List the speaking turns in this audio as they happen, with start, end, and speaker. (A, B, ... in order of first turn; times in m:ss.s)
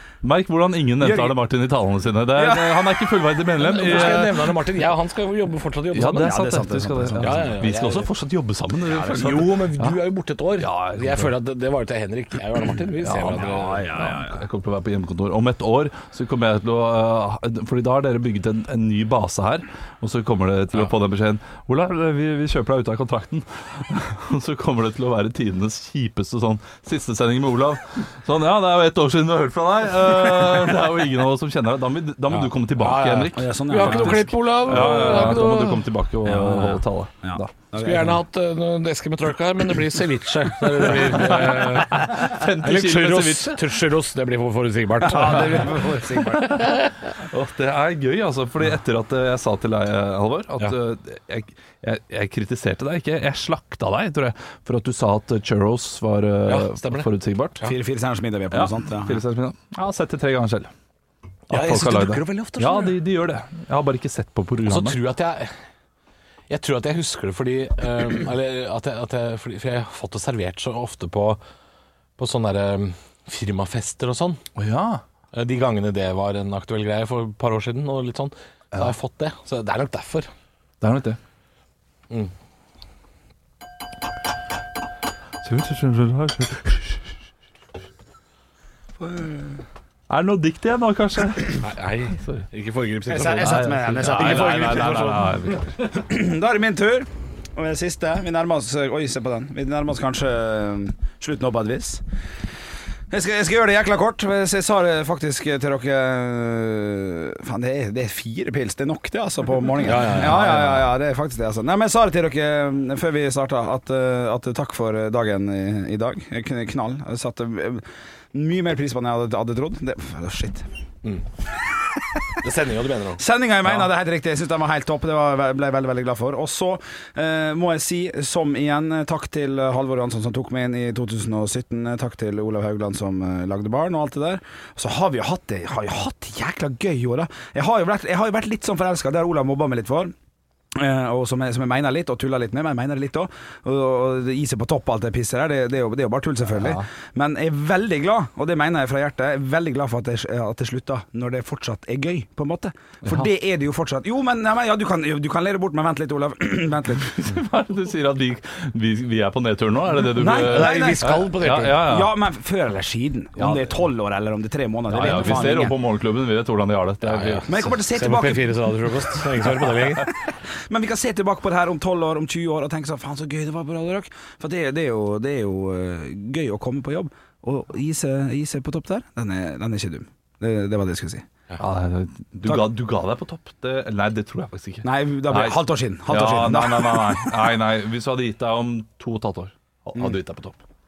0:00.2-0:04.5 A
0:01.0-0:01.4 B
0:02.4-0:02.8 B
0:03.6-0:06.5 C
0:05.9-0:10.0 A
0:06.2-0:07.5 B
0:07.2-0:08.1 C
0:09.0-0:13.8 C
0:10.6-0:11.3 A
0:13.0-0:37.9 A
0:13.4-0:14.4 B
0:32.8-0:35.9 C
0:33.3-0:35.3 B
0:36.2-0:38.2 B
0:37.8-0:45.8 C
0:40.7-0:43.6 A
0:45.0-0:46.6 B
0:45.1-0:45.8 A
0:46.4-0:57.6 A
0:46.4-0:46.9 C
0:56.5-0:57.1 C
0:57.6-0:59.2 B
0:58.5-1:00.7 A
1:01.5-1:03.0 C
1:01.5-1:05.0 A
1:04.7-1:05.5 C
1:06.5-1:11.4 C
1:12.2-1:14.4 C
1:14.6-1:15.0 A
1:15.3-1:20.3 C
1:20.8-1:21.2 A
1:25.4-1:27.1 A
1:29.0-1:29.6 B
1:30.1-1:31.6 A
1:31.6-1:35.9 C
1:32.2-1:32.4 A
1:33.1-1:35.1 B
1:33.2-1:35.8 A
1:35.9-1:42.0 B
1:43.1-2:00.7 B
1:49.8-1:50.9 C
2:02.4-2:03.2 C
2:03.2-2:20.1 B
2:20.7-2:37.1 B
2:26.6-2:26.8 A
2:37.0-2:42.1 A
2:40.2-2:41.2 B
2:40.2-2:42.0 C
2:41.8-2:45.8 B
2:43.4-2:43.8 A
2:44.9-2:45.7 C
2:44.9-2:47.7 A
2:47.0-2:50.1 C
2:47.5-2:49.2 B
2:50.5-3:01.2 B
3:01.6-3:10.6 A
3:04.8-3:07.4 B